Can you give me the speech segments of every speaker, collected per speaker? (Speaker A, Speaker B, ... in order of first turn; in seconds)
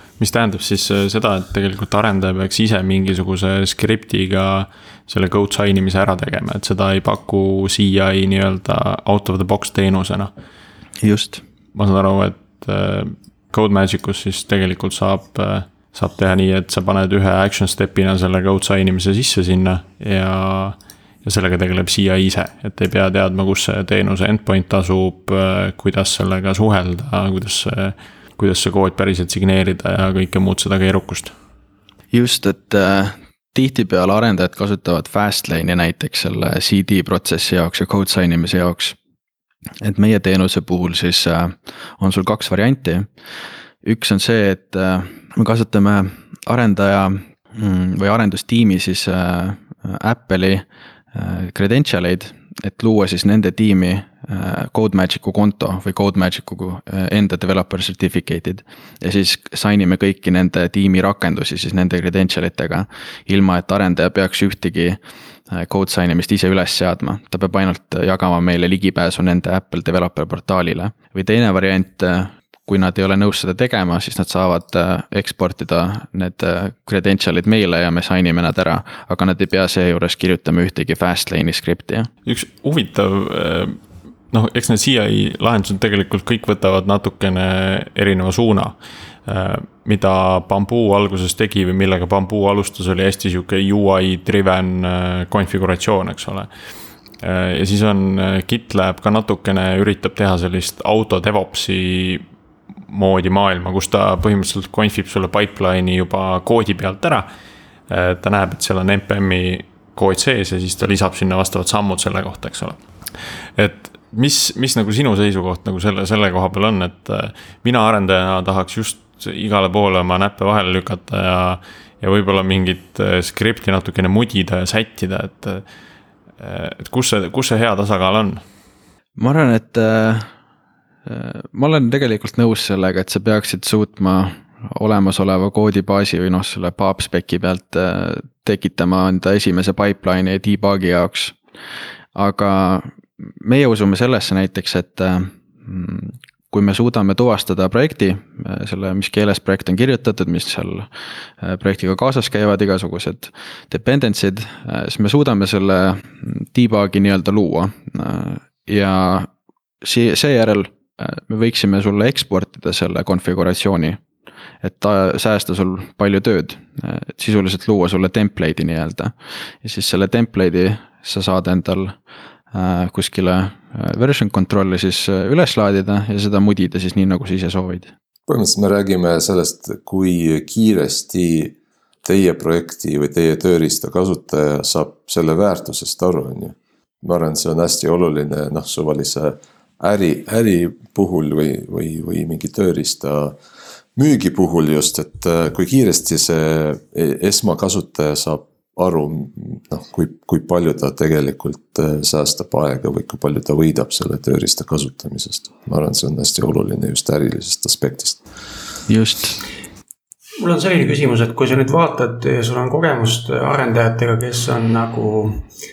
Speaker A: 0.2-10.3, 11.8-31.3, 82.3-83.8, 84.3-96.5, 97.2-102.2, 102.9-107.3, 107.9-112.8, 113.6-125.7, 126.4-128.4
Speaker B: 11.0-11.4, 32.1-39.0, 39.8-43.1, 43.8-82.1, 129.2-130.3, 131.1-141.4, 142.2-150.9, 151.4-159.3, 159.8-164.0, 164.6-172.0, 172.5-177.9, 208.9-209.4
Speaker C: 178.3-193.4, 194.0-208.2
Speaker D: 210.4-215.5